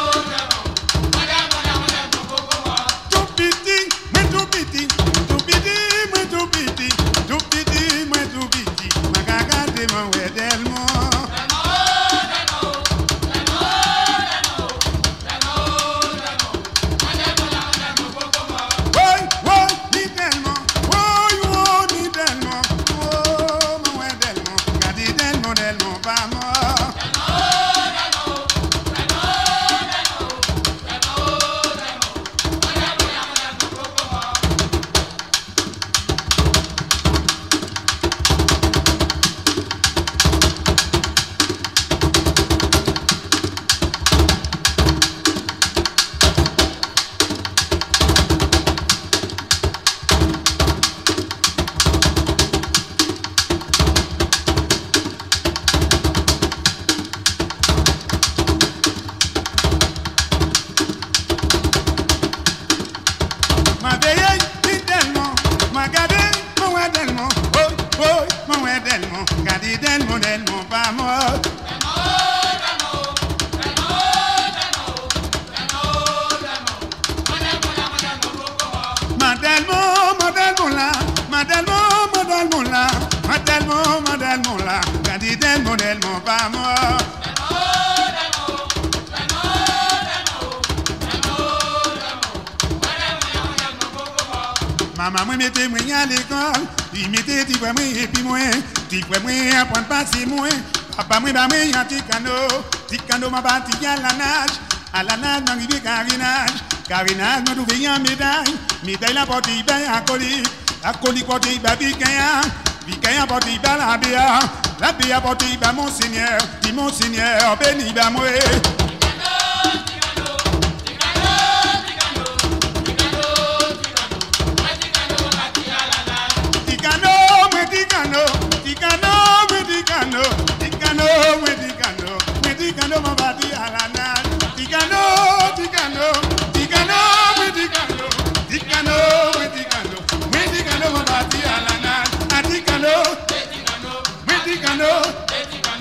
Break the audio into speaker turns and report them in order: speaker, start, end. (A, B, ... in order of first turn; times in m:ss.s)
0:03.0-0:11.4 A
0:18.9-0:27.0 A
1:03.8-1:11.4 A
1:19.1-1:27.1 A
1:34.9-1:58.6 A
2:06.6-2:23.4 A
2:24.0-2:25.4 A